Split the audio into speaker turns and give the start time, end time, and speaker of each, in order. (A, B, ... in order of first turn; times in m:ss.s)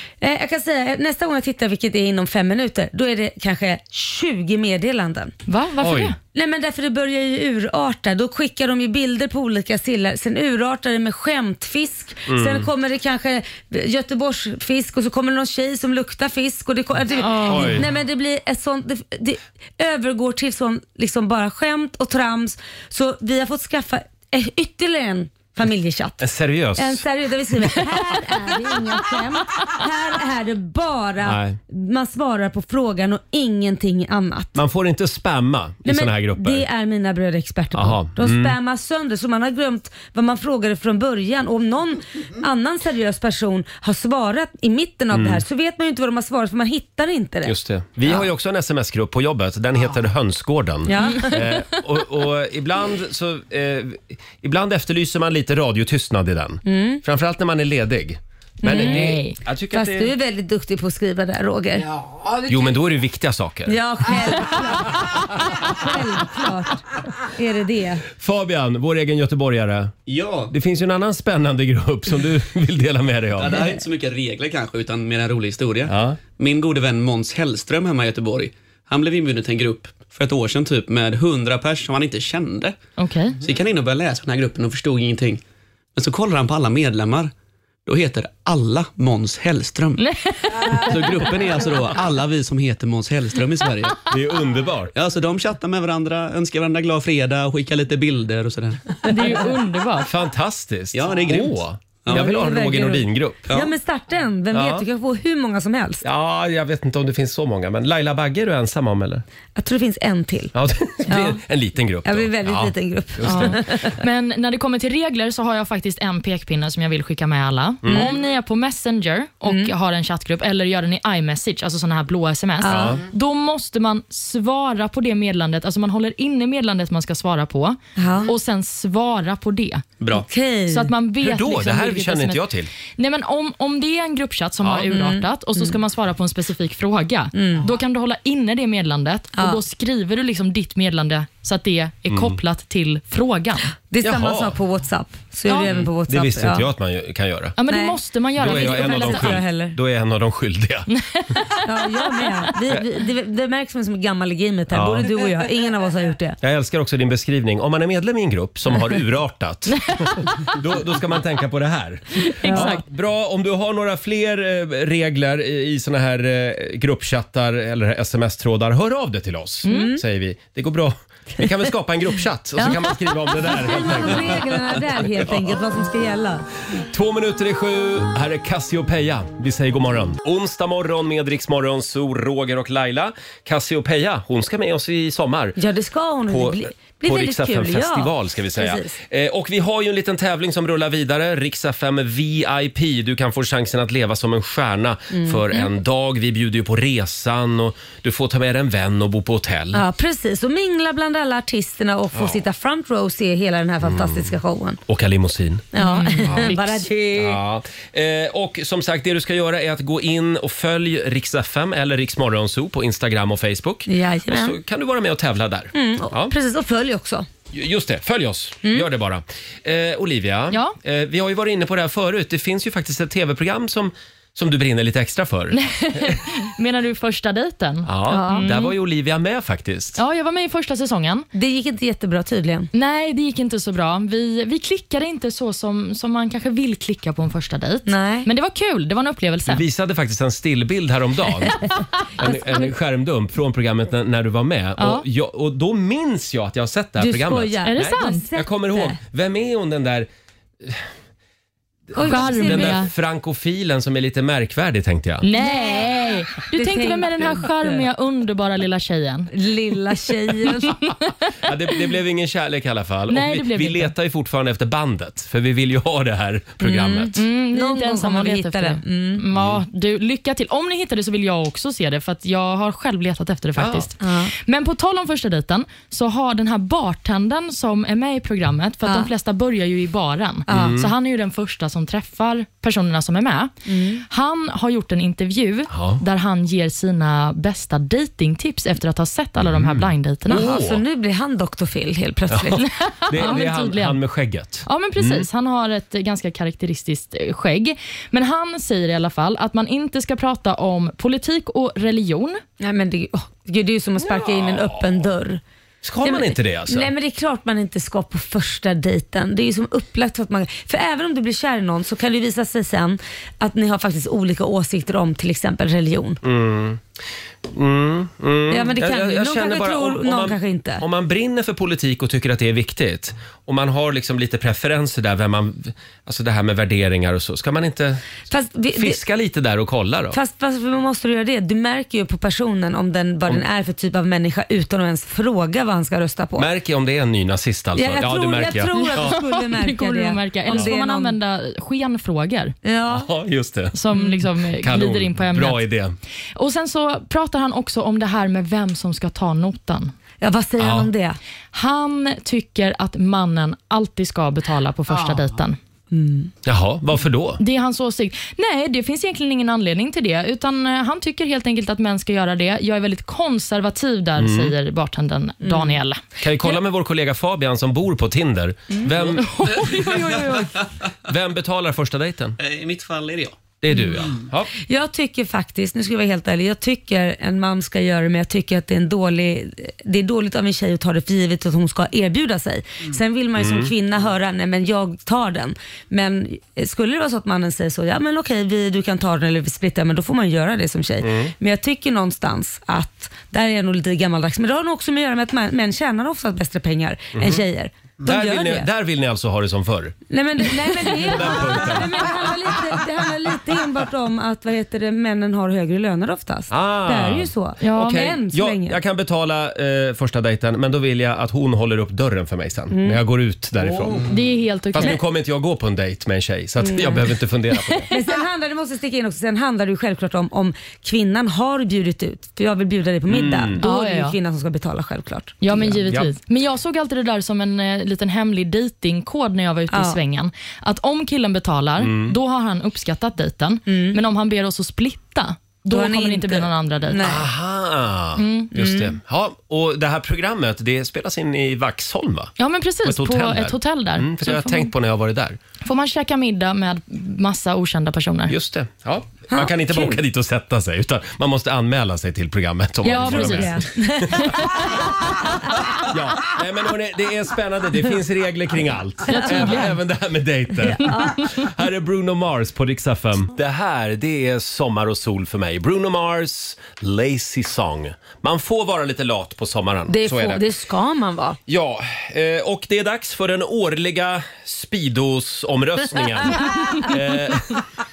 0:00.2-0:05.3 A
0:05.5-0:06.2 B
0:05.8-0:06.2 C
0:06.3-0:26.2 A
0:12.3-0:12.7 C
0:17.2-0:17.8 B
0:17.5-0:17.9 C
0:26.2-0:27.0 C
0:26.8-0:34.6 A
0:31.2-0:31.6 C
0:34.6-0:36.6 C
0:35.8-0:47.5 A
0:37.7-0:38.6 C
0:45.1-0:45.4 C
0:47.4-1:00.1 C
0:50.9-0:51.3 A
0:56.6-0:57.0 A
0:58.6-0:59.1 A
0:58.6-0:59.4 B
0:59.7-1:01.9 A
1:02.0-1:02.5 D
1:02.5-1:03.8 C
1:03.7-1:08.0 A
1:08.2-1:09.9 C
1:10.1-1:10.5 D
1:10.5-1:13.6 C
1:13.4-1:22.8 D
1:15.9-1:16.2 C
1:23.0-1:23.4 B
1:23.4-1:25.4 D
1:26.0-1:27.3 D
1:27.9-1:30.0 D
1:30.0-1:30.9 B
1:30.9-1:34.0 D
1:34.1-1:34.9 C
1:35.0-1:39.2 D
1:39.1-1:40.1 B
1:40.0-1:43.5 C
1:40.9-1:42.3 D
1:42.1-1:46.0 A
1:44.5-1:44.8 C
1:46.0-1:49.2 C
1:49.6-1:50.5 A
1:50.5-1:53.6 C
1:51.1-1:51.4 A
1:52.0-1:53.9 A
1:53.3-2:09.8 B
1:57.8-1:58.2 C
2:02.6-2:03.0 A
2:02.7-2:03.0 C
2:08.0-2:08.3 A
2:10.1-2:10.9 A
2:10.7-2:12.4 B
2:11.2-2:12.7 C
2:13.0-2:23.7 B
2:14.6-2:14.9 C
2:14.9-2:15.7 A
2:17.3-2:17.7 A
2:22.1-2:22.4 C
2:23.9-2:26.7 A
2:24.0-2:24.6 C
2:25.5-2:25.8 B
2:25.7-2:27.6 C
2:27.6-2:29.4 B
2:27.7-2:29.8 A
2:28.4-2:30.9 C
2:30.9-2:31.6 B
2:31.6-2:36.4 A
2:34.7-2:35.1 C
2:36.4-2:55.6 C
2:42.2-2:42.8 B
2:42.5-2:42.8 A
2:49.7-2:50.0 A
2:52.6-2:56.4 A
2:56.8-3:05.6 C
3:05.6-3:09.0 A
3:06.3-3:19.8 C
3:15.1-3:15.5 A
3:19.7-3:24.8 A
3:22.1-3:22.4 C
3:23.8-3:24.2 C
3:24.9-3:25.7 C
3:25.7-3:27.4 A
3:25.8-3:26.8 B
3:26.2-3:26.6 C
3:27.2-3:36.3 C
3:33.9-3:34.6 A
3:35.7-3:37.3 A
3:37.5-3:46.2 C
3:40.5-3:40.8 B
3:45.6-3:48.7 B
3:47.9-3:50.0 C
3:48.1-3:48.5 A
3:50.0-3:51.3 B
3:51.3-3:52.7 A
3:52.7-3:59.6 B
3:57.9-3:58.3 A
3:59.5-4:01.6 C
4:02.2-4:10.1 C
4:02.3-4:02.7 A
4:04.8-4:05.0 B
4:07.0-4:09.0 A
4:07.7-4:08.2 B
4:10.6-4:10.9 C
4:11.9-4:15.2 C
4:11.9-4:12.8 A
4:12.0-4:12.9 B
4:15.2-4:19.3 B
4:15.4-4:17.9 A
4:19.3-4:20.8 A
4:20.7-4:21.1 B
4:21.4-4:27.2 C
4:23.1-4:23.9 B
4:26.6-4:29.2 A
4:27.2-4:43.5 B
4:29.3-4:29.6 C
4:33.6-4:33.9 C
4:34.0-4:34.3 A
4:40.5-4:40.8 A
4:40.5-4:40.9 C
4:43.7-4:44.0 A
4:44.1-4:50.5 B
4:45.7-4:46.0 C
4:49.4-4:50.8 C
4:50.3-4:52.6 A
4:52.3-4:55.3 C
4:52.6-4:54.0 B
4:54.7-5:02.4 B
5:02.6-5:05.4 A
5:04.0-5:05.1 C
5:05.8-5:06.9 C
5:06.0-5:16.2 A
5:16.2-5:16.8 C
5:17.4-5:28.0 C
5:18.5-5:20.8 A
5:28.3-5:29.0 A
5:28.8-5:30.2 C
5:30.1-5:36.5 A
5:36.4-5:39.1 C
5:37.8-5:41.2 A
5:38.8-5:42.5 B
5:42.6-5:43.1 A
5:42.9-5:43.8 C
5:43.8-5:45.6 B
5:44.6-5:46.0 C
5:46.4-5:49.9 B
5:50.2-5:51.2 A
5:50.6-5:50.9 C
5:51.5-5:55.6 B
5:55.9-5:56.3 A
5:56.4-5:57.4 C
5:57.4-6:06.0 B
6:04.2-6:04.5 C
6:05.4-6:05.8 A
6:06.2-6:09.3 C
6:09.2-6:10.6 B
6:09.7-6:10.0 D
6:11.1-6:12.4 C
6:12.4-6:13.4 D
6:13.6-6:14.5 C
6:14.6-6:38.7 A
6:23.4-6:23.7 C
6:31.0-6:31.3 C
6:37.2-6:37.4 C
6:38.0-6:40.0 C
6:40.1-6:48.8 A
6:40.9-6:42.2 C
6:46.5-6:54.0 C
6:47.6-6:48.1 B
6:52.7-6:53.0 A
6:54.1-6:55.0 B
6:54.7-6:57.9 C
6:56.6-6:57.0 A
6:57.9-7:05.7 A
7:03.1-7:03.6 C
7:03.6-7:04.2 B
7:05.4-7:17.1 B
7:09.7-7:10.0 A
7:11.8-7:12.2 C
7:13.7-7:14.0 A
7:15.7-7:17.3 A
7:17.0-7:22.3 C
7:18.2-7:18.5 B
7:18.6-7:18.9 A
7:22.4-7:24.7 B
7:22.8-7:25.4 C
7:25.6-7:28.3 B
7:28.3-7:34.4 C
7:29.3-7:30.0 A
7:32.8-7:34.8 B
7:32.9-7:35.4 A
7:35.8-7:50.4 C
7:39.1-7:39.8 B
7:40.6-7:41.2 A
7:49.9-7:51.4 A
7:51.5-7:57.6 C